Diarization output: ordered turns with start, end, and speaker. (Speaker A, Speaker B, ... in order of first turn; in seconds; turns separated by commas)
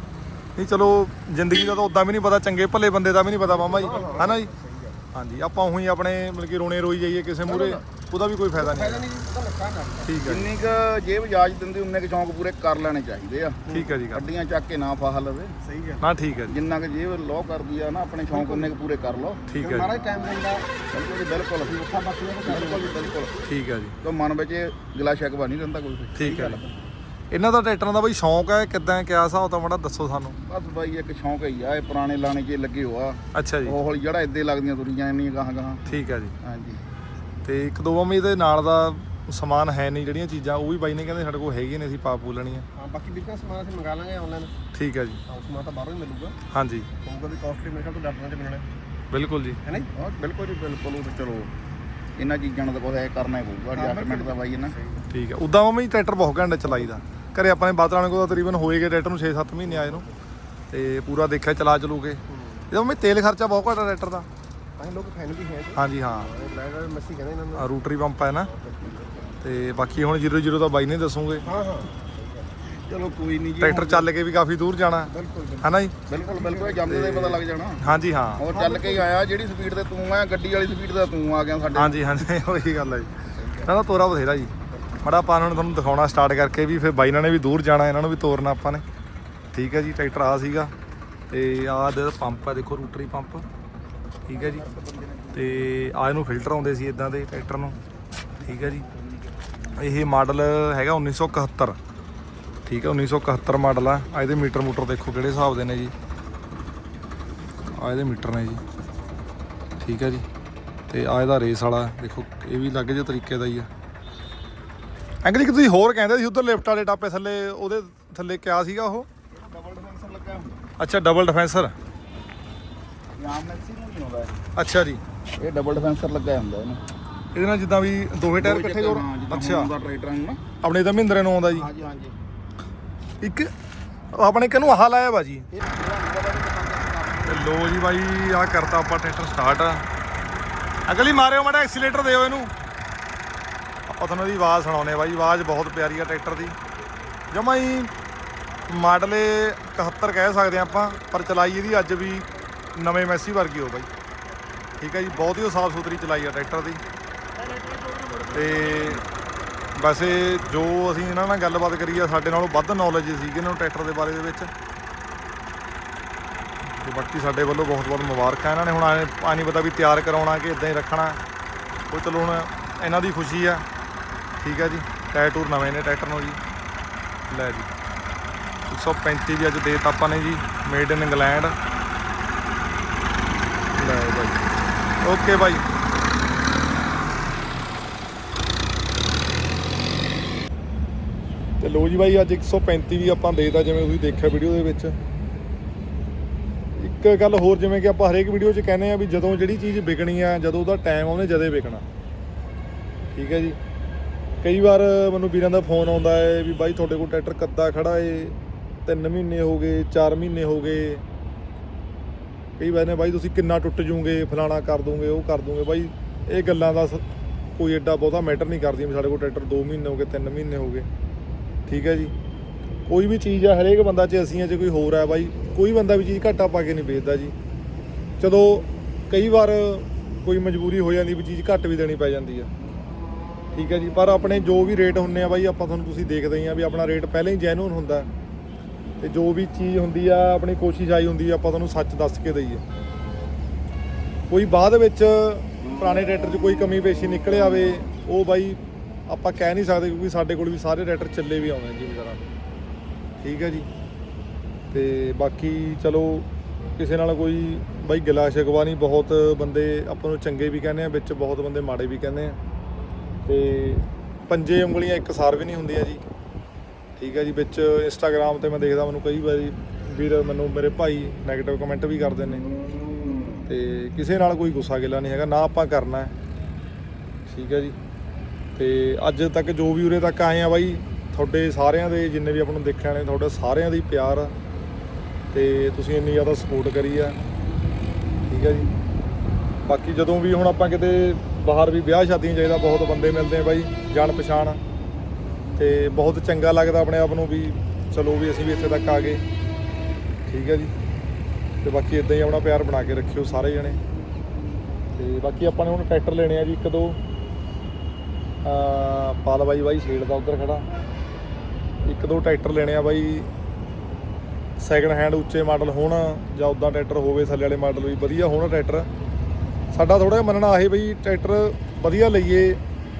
Speaker A: 0.6-4.5, Speaker B: 3.5-5.1, Speaker A: 5.1-9.0, Speaker B: 7.5-7.8, Speaker B: 8.5-10.3, Speaker A: 10.1-10.5, Speaker C: 10.2-15.6, Speaker B: 13.7-14.0, Speaker A: 13.7-14.3, Speaker B: 15.6-16.1, Speaker A: 16.0-16.6, Speaker C: 16.5-23.3, Speaker B: 18.3-18.7, Speaker A: 19.5-19.9, Speaker B: 19.6-20.7, Speaker B: 21.6-23.1, Speaker A: 23.4-24.0, Speaker C: 24.0-26.9, Speaker A: 26.2-26.6, Speaker A: 27.3-30.4, Speaker C: 30.4-36.8, Speaker A: 33.3-33.8, Speaker A: 35.9-36.4, Speaker A: 37.5-42.7, Speaker B: 42.8-44.5, Speaker A: 44.7-45.2, Speaker B: 45.3-46.4, Speaker A: 46.5-46.9, Speaker B: 47.0-48.7, Speaker A: 49.1-49.6, Speaker B: 49.6-49.9, Speaker C: 49.9-51.5, Speaker C: 52.2-54.7, Speaker B: 53.8-55.1, Speaker A: 55.1-60.0, Speaker B: 59.6-60.1, Speaker A: 60.7-64.3, Speaker B: 62.3-62.7, Speaker B: 64.8-67.7, Speaker A: 65.8-66.3, Speaker A: 67.6-68.5, Speaker B: 68.4-69.3, Speaker A: 69.4-71.5, Speaker B: 71.5-72.5, Speaker C: 72.7-74.1, Speaker A: 73.6-76.0, Speaker B: 75.1-76.9, Speaker C: 76.1-82.2, Speaker A: 76.9-78.5, Speaker B: 78.5-79.1, Speaker A: 81.8-88.8, Speaker B: 83.3-83.7, Speaker A: 89.5-90.7, Speaker A: 91.3-93.5, Speaker A: 94.3-94.6, Speaker C: 94.3-95.8, Speaker A: 95.3-97.8, Speaker C: 98.4-100.1, Speaker A: 98.4-98.8, Speaker A: 99.8-101.8, Speaker A: 102.7-105.9, Speaker A: 107.7-108.6, Speaker A: 109.8-110.3, Speaker A: 110.9-113.7, Speaker A: 115.2-119.1, Speaker C: 119.3-120.6, Speaker A: 120.8-121.7, Speaker C: 123.2-124.4, Speaker A: 124.6-125.0, Speaker C: 125.4-126.8, Speaker A: 127.3-129.7, Speaker C: 128.4-130.4, Speaker A: 130.6-131.7, Speaker C: 131.5-132.2, Speaker A: 133.2-133.5, Speaker A: 134.1-135.5, Speaker C: 135.5-137.5, Speaker A: 137.3-139.9, Speaker A: 140.9-142.5, Speaker A: 143.9-146.6, Speaker A: 147.3-147.9, Speaker A: 148.7-153.9, Speaker A: 154.8-156.8, Speaker A: 158.3-159.0, Speaker A: 159.8-164.5, Speaker A: 166.6-171.2, Speaker A: 171.9-173.7, Speaker A: 174.4-176.4, Speaker A: 177.3-177.7, Speaker A: 178.7-181.6, Speaker A: 183.8-184.4, Speaker A: 185.0-185.7, Speaker A: 191.6-194.9, Speaker A: 196.8-201.8, Speaker A: 203.1-203.6, Speaker A: 204.4-211.1, Speaker A: 212.6-220.9, Speaker A: 221.7-222.1, Speaker A: 222.9-227.3, Speaker A: 228.2-232.5, Speaker A: 233.5-238.1, Speaker A: 239.0-242.6, Speaker A: 244.3-252.2, Speaker A: 253.2-253.7, Speaker A: 254.7-262.4, Speaker A: 263.3-266.0, Speaker A: 267.0-272.5, Speaker A: 273.5-276.1, Speaker A: 277.3-277.8, Speaker A: 278.6-284.3, Speaker A: 285.3-287.2, Speaker A: 288.3-288.7, Speaker A: 289.7-294.6, Speaker A: 295.6-299.2, Speaker A: 300.3-300.7, Speaker A: 301.6-303.8, Speaker A: 304.9-307.0, Speaker A: 308.4-310.6, Speaker A: 311.8-313.3, Speaker A: 314.6-318.9, Speaker A: 319.7-322.6